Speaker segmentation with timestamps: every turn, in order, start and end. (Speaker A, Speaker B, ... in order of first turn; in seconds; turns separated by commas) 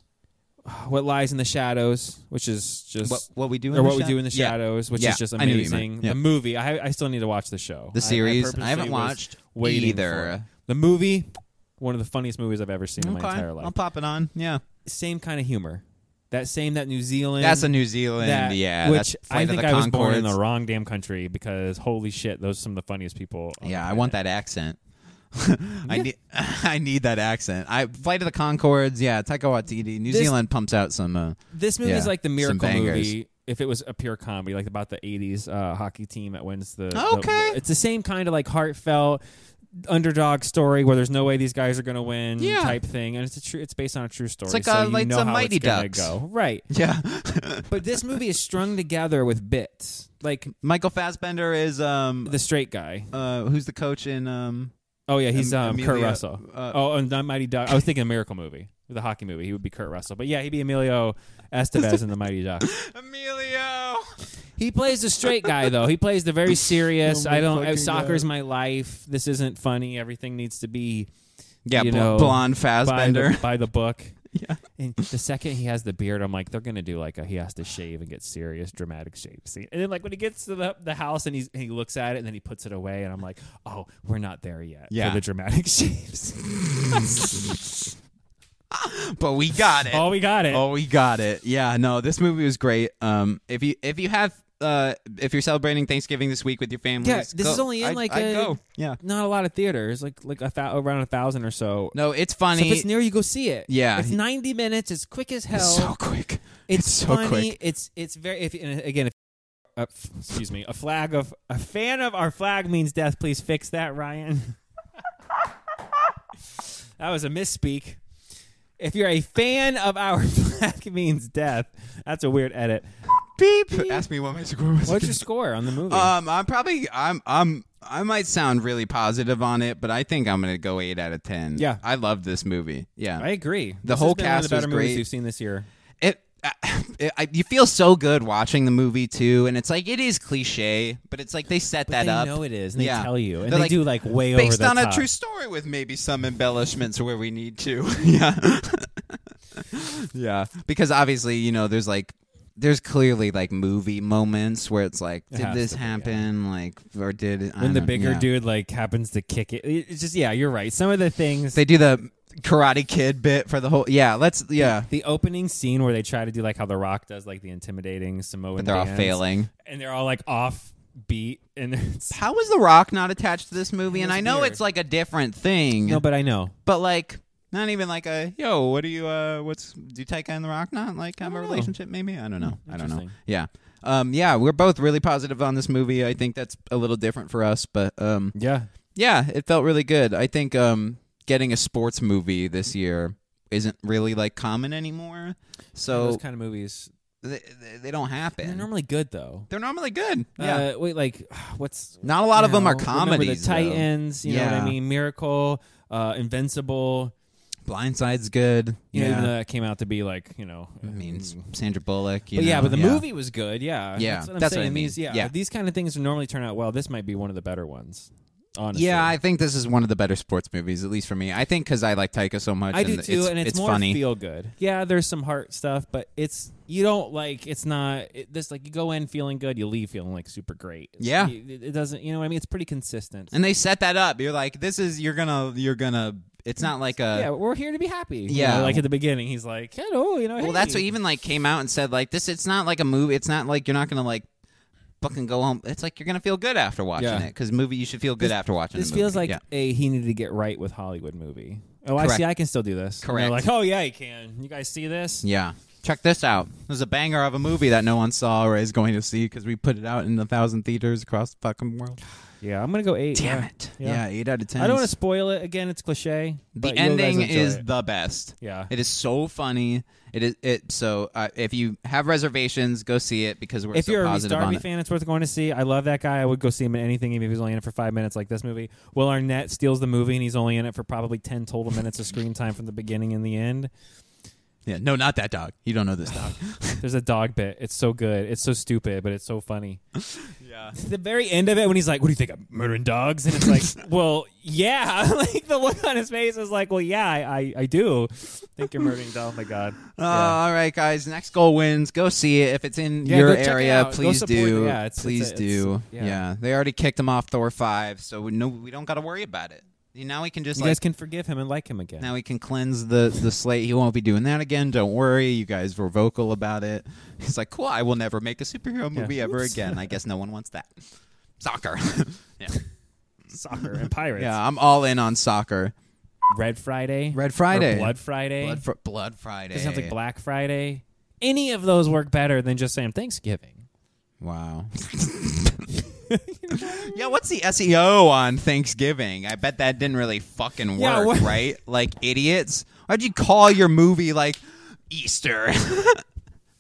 Speaker A: 0.7-13.7, Speaker B: 3.0-6.2, Speaker B: 7.9-10.4, Speaker B: 13.0-14.6, Speaker A: 14.8-24.1, Speaker B: 17.4-20.3, Speaker B: 23.6-24.8, Speaker B: 25.3-33.1, Speaker A: 30.1-30.3, Speaker A: 31.5-39.2, Speaker B: 36.9-37.6, Speaker A: 39.9-46.6, Speaker B: 42.4-42.8, Speaker B: 44.5-46.1, Speaker B: 46.7-47.8, Speaker A: 47.7-50.5, Speaker B: 50.6-52.3, Speaker A: 52.2-53.1, Speaker B: 53.1-54.7, Speaker A: 55.1-62.7, Speaker B: 55.3-56.8, Speaker B: 62.6-64.0, Speaker A: 64.6-71.1, Speaker B: 65.2-65.6, Speaker B: 66.9-68.2, Speaker B: 71.7-73.4, Speaker A: 71.7-74.2, Speaker B: 74.3-74.6, Speaker A: 74.8-87.5, Speaker B: 84.9-85.2, Speaker B: 88.7-99.0, Speaker A: 89.9-90.6, Speaker A: 97.0-102.0, Speaker B: 101.9-102.9, Speaker A: 102.5-105.9, Speaker B: 103.7-104.2, Speaker B: 105.5-107.5, Speaker A: 106.7-109.1, Speaker A: 109.8-114.5, Speaker A: 117.0-118.0, Speaker A: 118.8-122.9, Speaker B: 123.3-125.2, Speaker A: 123.7-124.0, Speaker A: 124.8-126.1, Speaker B: 125.9-133.2, Speaker A: 131.6-131.8, Speaker A: 133.2-135.7, Speaker B: 133.8-135.0, Speaker B: 136.0-158.3, Speaker A: 141.9-145.1, Speaker A: 155.3-156.2, Speaker A: 157.6-161.6, Speaker B: 161.5-164.9, Speaker A: 164.6-172.2, Speaker B: 168.6-169.5, Speaker B: 172.1-176.0, Speaker A: 173.9-174.6, Speaker A: 175.8-176.5, Speaker B: 176.6-188.3, Speaker A: 181.2-181.7, Speaker A: 182.4-183.1, Speaker A: 188.3-188.7, Speaker B: 188.9-196.2, Speaker A: 195.9-196.9, Speaker B: 197.2-198.7, Speaker A: 198.4-199.5, Speaker B: 199.5-200.7, Speaker A: 200.4-207.1, Speaker B: 202.0-204.7, Speaker B: 207.7-209.3, Speaker A: 208.9-211.4, Speaker B: 210.8-213.0, Speaker A: 212.3-219.2, Speaker B: 214.0-215.3, Speaker B: 218.7-224.0, Speaker A: 222.7-233.3, Speaker B: 231.0-231.3, Speaker B: 233.3-237.3, Speaker A: 237.1-240.9, Speaker B: 238.3-238.8, Speaker B: 240.4-244.2, Speaker B: 245.0-249.4, Speaker A: 246.9-247.3, Speaker A: 248.2-255.2, Speaker B: 252.0-252.2, Speaker B: 253.0-253.4, Speaker B: 255.2-262.0, Speaker A: 262.4-264.0, Speaker B: 263.1-264.9, Speaker A: 264.6-267.6, Speaker B: 266.6-274.6, Speaker A: 268.4-268.7, Speaker A: 273.7-283.7, Speaker B: 284.6-286.8, Speaker A: 286.1-289.8, Speaker B: 290.3-290.8, Speaker A: 290.7-300.4, Speaker B: 299.9-310.8, Speaker A: 303.0-306.2, Speaker A: 310.5-312.1, Speaker B: 312.0-320.7, Speaker A: 318.9-319.9, Speaker B: 321.4-322.6, Speaker A: 323.3-324.4, Speaker B: 324.1-325.7, Speaker A: 326.3-328.6, Speaker B: 327.1-329.9, Speaker A: 329.5-333.6, Speaker B: 334.2-335.6, Speaker A: 335.9-337.1, Speaker B: 336.5-346.0, Speaker A: 340.7-341.4